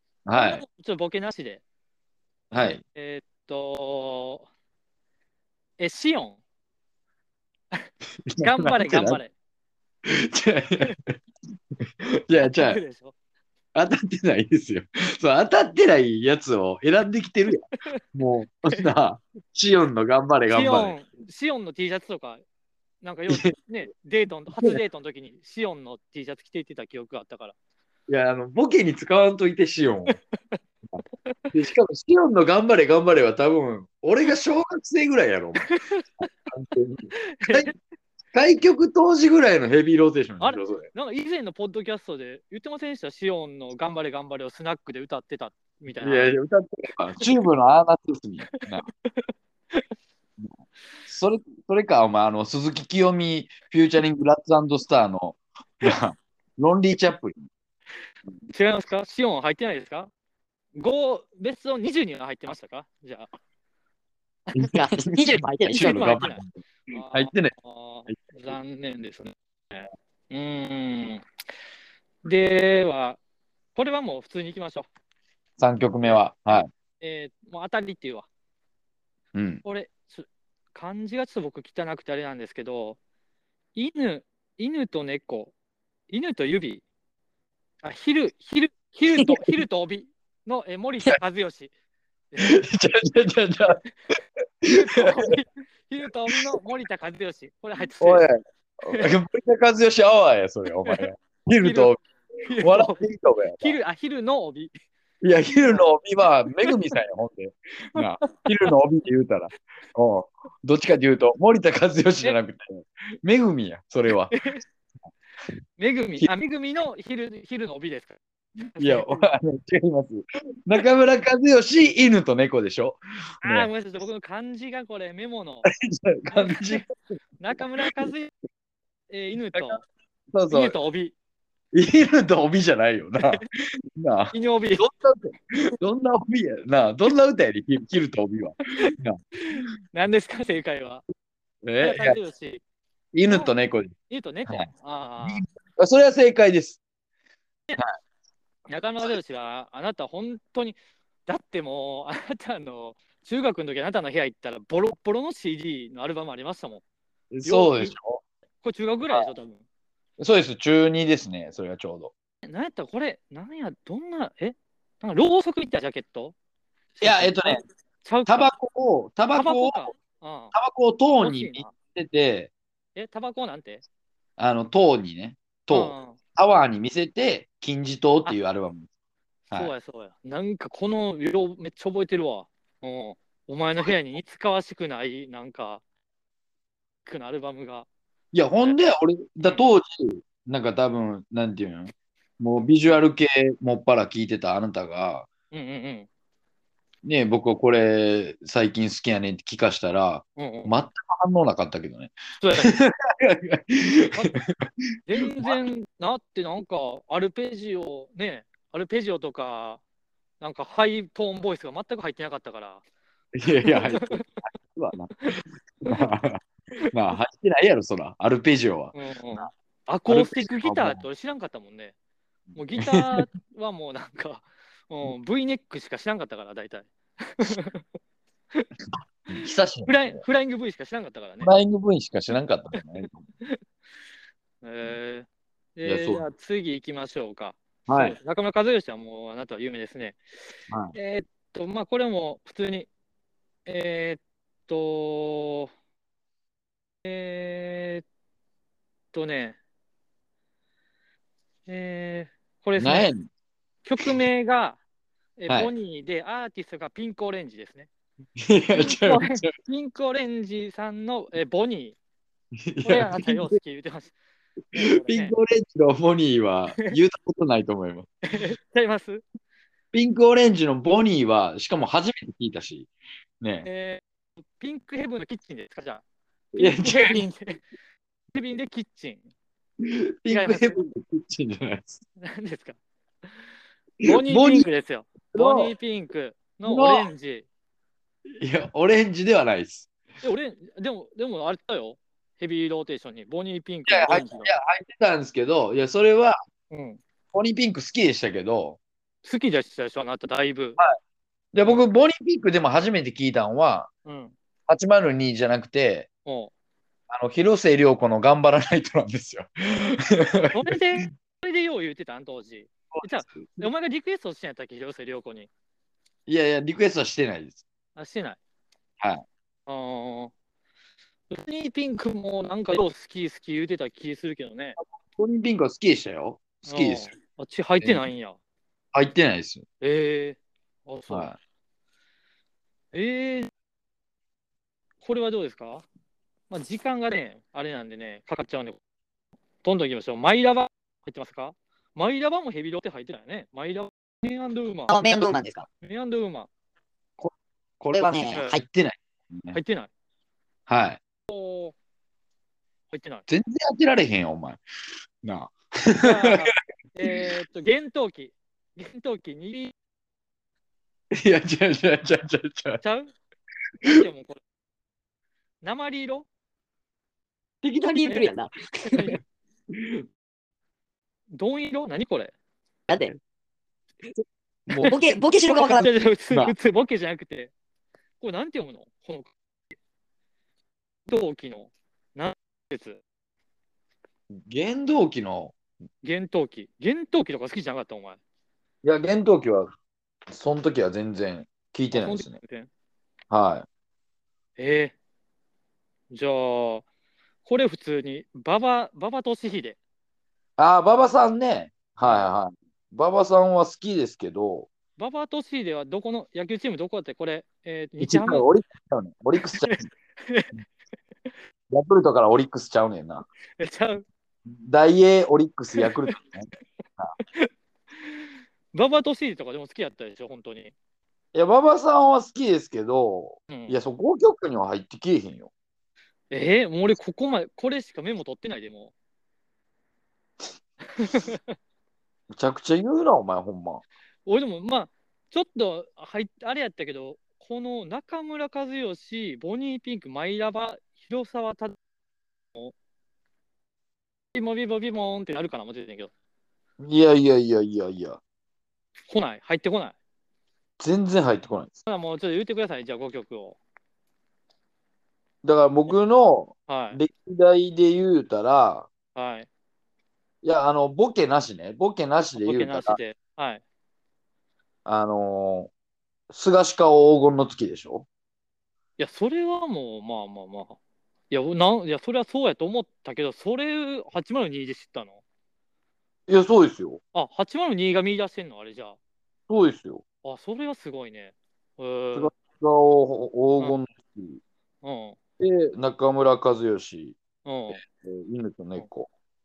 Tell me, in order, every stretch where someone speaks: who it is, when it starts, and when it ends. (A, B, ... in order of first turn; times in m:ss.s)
0:00.2-0:00.6 A
0:00.3-0:01.6 B
0:02.5-0:02.8 A
0:02.8-0:04.4 B
0:05.8-0:06.4 B
0:08.3-0:09.2 A
0:08.4-0:09.3 B
0:10.1-0:11.2 A
0:12.3-0:12.8 A
0:12.4-0:13.1 B
0:13.8-0:21.0 A
0:20.5-0:22.4 B
0:23.0-0:27.6 B
0:28.1-0:30.2 A
0:30.1-0:30.6 B
0:31.5-0:35.7 A
0:35.6-0:36.0 B
0:36.5-0:37.7 A
0:37.3-0:37.7 B
0:38.3-0:40.9 A
0:40.4-0:46.3 B
0:46.0-0:48.8 A
0:48.6-0:49.8 B
0:51.1-0:57.4 A
0:58.5-1:00.1 B
1:00.8-1:03.3 B
1:04.6-1:06.5 A
1:04.7-1:06.2 C
1:05.7-1:11.2 B
1:07.1-1:07.5 A
1:08.1-1:08.6 A
1:12.2-1:13.2 B
1:13.8-1:14.9 B
1:15.6-1:16.7 A
1:17.0-1:18.3 B
1:19.3-1:19.6 A
1:19.6-1:23.0 B
1:23.8-1:25.5 B
1:26.1-1:26.8 B
1:27.8-1:31.7 B
1:32.3-1:32.6 B
1:32.4-1:33.8 A
1:34.6-1:35.3 A
1:34.7-1:38.3 B
1:38.0-1:42.0 A
1:40.8-1:43.0 B
1:42.6-1:43.8 A
1:43.6-1:44.7 B
1:45.2-1:54.4 A
1:45.6-1:46.0 B
1:48.0-1:48.7 B
1:54.3-1:54.6 B
1:55.8-1:58.2 B
1:58.7-1:59.3 B
1:58.8-2:03.7 A
2:03.4-2:05.7 B
2:05.8-2:06.9 A
2:06.3-2:06.9 B
2:07.4-2:08.3 B
2:07.8-2:08.1 A
2:09.1-2:09.8 B
2:09.5-2:09.8 A
2:10.3-2:10.8 A
2:10.5-2:11.2 B
2:11.7-2:19.2 A
2:14.3-2:14.8 B
2:18.8-2:21.0 B
2:21.6-2:22.2 A
2:21.8-2:22.6 B
2:23.1-2:23.9 A
2:23.3-2:23.5 B
2:24.1-2:25.4 B
2:25.2-2:26.8 A
2:28.7-2:36.8 B
2:37.3-2:38.2 A
2:37.4-2:37.9 B
2:38.6-2:39.6 B
2:40.2-2:42.1 A
2:42.4-2:46.3 B
2:47.0-2:48.5 B
2:47.0-2:47.6 A
2:48.3-2:49.9 A
2:49.3-2:50.5 B
2:50.5-2:52.5 A
2:51.2-2:51.7 B
2:52.9-2:53.8 B
2:54.4-2:58.9 A
2:55.7-2:56.2 B
2:59.5-3:05.8 B
3:07.0-3:07.9 B
3:08.3-3:15.3 A
3:15.5-3:16.1 B
3:17.0-3:24.6 A
3:20.4-3:20.7 B
3:22.4-3:22.7 B
3:25.1-3:29.8 B
3:25.2-3:25.6 A
3:30.4-3:32.8 B
3:33.3-3:35.3 A
3:33.6-3:34.4 B
3:35.2-3:36.1 B
3:35.8-3:36.4 A
3:36.9-3:39.5 A
3:38.9-3:41.9 B
3:40.1-3:41.0 A
3:42.5-3:47.8 B
3:42.8-3:43.3 A
3:49.3-3:50.2 A
3:49.8-3:51.5 B
3:51.4-3:53.2 A
3:54.6-4:00.2 B
3:55.8-3:56.2 A
3:57.9-3:58.2 A
4:00.7-4:01.0 A
4:00.9-4:02.9 B
4:03.7-4:05.7 B
4:07.0-4:08.0 B
4:09.1-4:09.6 B
4:11.7-4:13.1 B
4:12.8-4:13.3 A
4:13.8-4:14.8 B
4:15.4-4:17.9 B
4:18.4-4:19.5 A
4:18.7-4:22.0 B
4:22.7-4:23.6 A
4:22.8-4:24.1 B
4:24.7-4:25.3 B
4:24.8-4:28.1 A
4:28.3-4:29.2 B
4:29.9-4:33.7 A
4:33.6-4:34.0 B
4:34.6-4:36.0 B
4:36.6-4:37.2 A
4:36.6-4:37.6 B
4:38.3-4:39.3 B
4:39.8-4:42.0 A
4:40.3-4:40.8 B
4:42.2-4:42.8 B
4:44.0-4:44.7 A
4:44.0-4:47.4 B
4:45.3-4:45.7 A
4:46.7-4:47.1 A
4:48.4-4:49.9 A
4:50.2-4:54.5 B
4:53.9-4:56.4 A
4:56.7-4:57.0 B
4:57.3-4:58.8 A
4:59.2-5:00.8 B
5:01.5-5:03.9 A
5:04.0-5:04.3 B
5:04.7-5:06.1 A
5:06.3-5:06.5 B
5:07.1-5:11.1 A
5:10.5-5:15.5 B
5:12.9-5:13.7 A
5:16.3-5:17.6 A
5:18.0-5:18.4 B
5:19.7-5:20.3 B
5:21.3-5:24.8 B
5:25.0-5:27.1 A
5:26.7-5:28.4 B
5:28.9-5:29.6 A
5:29.8-5:31.3 B
5:31.1-5:31.4 A
5:32.9-5:33.5 B
5:35.0-5:35.8 B
5:36.5-5:38.8 B
5:39.6-5:44.9 B
5:44.9-5:45.7 C
5:45.8-5:46.5 B
5:47.2-5:49.6 A
5:47.9-5:48.6 C
5:49.5-5:49.9 B
5:50.7-5:51.0 A
5:51.3-5:51.8 B
5:52.9-5:53.3 B
5:53.3-5:54.6 A
5:55.2-5:56.4 A
5:56.0-5:59.7 B
6:01.2-6:02.8 A
6:02.8-6:03.1 B
6:03.8-6:04.4 B
6:05.6-6:06.3 B
6:07.6-6:09.1 C
6:08.0-6:08.3 B
6:08.8-6:09.2 B
6:09.7-6:10.0 A
6:11.3-6:12.3 B
6:12.9-6:13.2 C
6:14.7-6:14.9 A
6:14.8-6:15.9 C
6:15.5-6:17.5 B
6:18.2-6:19.3 B
6:21.1-6:23.0 B
6:24.3-6:25.6 A
6:26.0-6:28.2 B
6:28.8-6:29.7 A
6:30.3-6:32.4 A
6:31.9-6:32.7 B
6:33.3-6:33.7 A
6:34.6-6:34.9 B
6:36.1-6:36.8 B
6:37.4-6:39.8 B
6:40.6-6:44.7 A
6:42.0-6:42.3 B
6:45.0-6:48.5 B
6:48.0-6:49.8 A
6:49.4-6:50.5 B
6:51.7-6:53.3 A
6:53.6-6:54.0 B
6:54.5-6:57.1 A
6:55.8-6:56.2 B
6:58.7-7:00.7 B
7:01.3-7:05.5 A
7:03.5-7:03.8 B
7:06.3-7:08.9 B
7:11.0-7:11.6 B
7:12.3-7:13.8 A
7:14.3-7:21.8 B
7:24.3-7:26.1 B
7:26.8-7:28.2 A
7:29.1-7:29.9 B
7:30.8-7:31.8 A
7:31.8-7:33.6 B
7:35.4-7:38.9 A
7:36.7-7:37.0 B
7:39.2-7:39.5 B
7:40.4-7:43.0 A
7:42.4-7:43.6 B
7:44.8-7:45.7 A
7:46.3-7:48.1 A
7:49.0-7:50.8 B
7:51.3-7:55.2 B
7:56.3-7:57.0 A
7:57.1-7:59.0 B
7:59.5-8:00.0 A
8:00.2-8:02.3 B
8:02.1-8:04.4 A
8:04.8-8:05.2 B
8:05.4-8:07.2 A
8:07.4-8:07.8 B
8:07.8-8:09.1 A